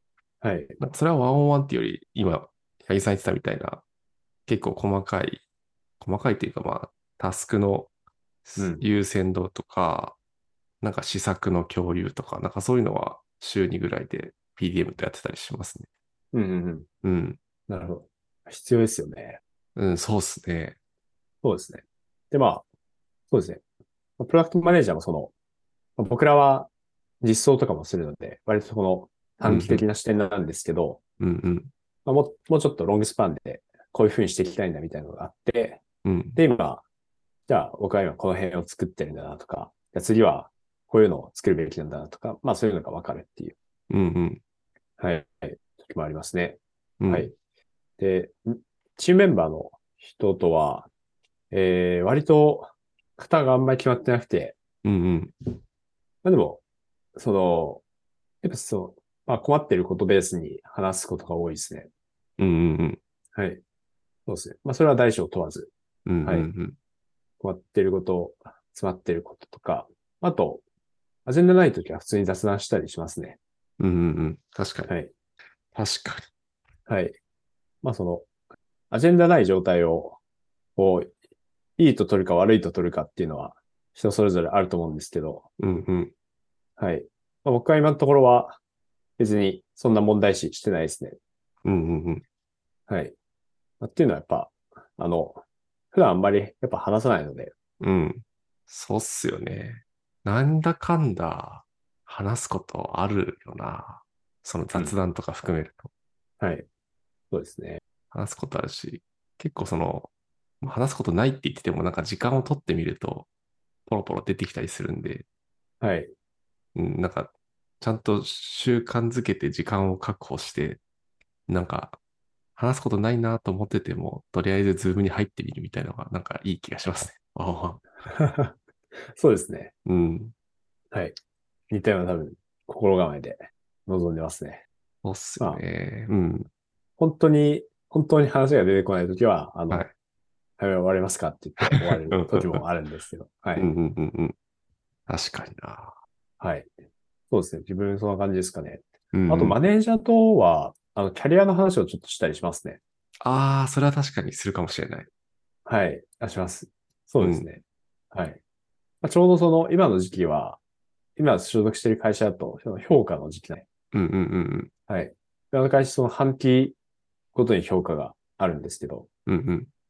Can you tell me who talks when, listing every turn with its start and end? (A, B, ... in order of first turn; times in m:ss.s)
0:00.4-0:00.8 A
0:00.8-0:03.8 B
0:04.5-0:05.4 B
0:06.0-0:07.9 B
0:08.4-0:10.2 B
0:08.6-0:08.8 A
0:10.8-0:15.9 B
0:16.3-0:16.9 A
0:17.0-0:17.4 B
0:17.7-0:19.4 A
0:19.8-0:20.8 B
0:21.4-0:22.6 A
0:23.3-0:23.6 A
0:24.2-0:25.3 A
0:26.0-0:26.7 A
0:27.2-0:31.0 A
0:29.4-0:29.8 B
0:31.2-0:31.7 B
0:32.0-0:35.8 A
0:36.0-0:36.4 B
0:36.3-0:36.8 A
0:37.5-0:43.5 A
0:43.9-0:44.4 B
0:45.0-0:47.3 A
0:47.0-0:47.3 B
0:48.0-0:50.9 A
0:51.5-0:54.6 A
0:54.8-0:55.3 B
0:56.2-0:56.6 A
0:57.2-0:57.8 A
0:58.4-1:01.9 A
1:02.4-1:03.0 B
1:03.3-1:03.6 A
1:04.3-1:05.7 A
1:06.0-1:06.8 B
1:07.4-1:10.6 A
1:11.2-1:13.4 A
1:13.8-1:14.9 B
1:15.7-1:16.3 B
1:16.9-1:17.2 A
1:17.8-1:18.3 A
1:18.9-1:20.2 A
1:20.8-1:21.1 A
1:21.8-1:25.4 A
1:25.6-1:26.1 B
1:26.8-1:28.6 A
1:29.2-1:31.2 A
1:31.6-1:32.2 B
1:32.9-1:33.1 A
1:33.8-1:37.5 A
1:37.8-1:45.9 B
1:46.4-1:46.7 A
1:47.3-1:47.8 A
1:48.1-1:50.1 B
1:50.6-1:53.3 B
1:53.9-1:55.2 B
1:55.8-1:56.1 A
1:56.8-2:00.8 B
2:01.5-2:02.0 B
2:02.6-2:07.8 B
2:08.0-2:08.6 A
2:09.1-2:09.7 A
2:09.8-2:10.3 B
2:11.7-2:14.6 A
2:15.0-2:16.5 B
2:17.0-2:19.8 A
2:20.6-2:23.7 A
2:21.7-2:22.6 B
2:23.6-2:24.3 B
2:25.1-2:26.0 B
2:26.4-2:26.7 A
2:27.3-2:32.8 A
2:29.1-2:29.6 B
2:33.2-2:35.1 B
2:35.6-2:37.6 A
2:37.2-2:37.5 B
2:38.1-2:38.4 A
2:39.0-2:40.6 A
2:41.2-2:43.7 A
2:43.9-2:44.7 B
2:44.9-2:46.8 A
2:47.3-2:49.1 A
2:49.2-2:49.7 B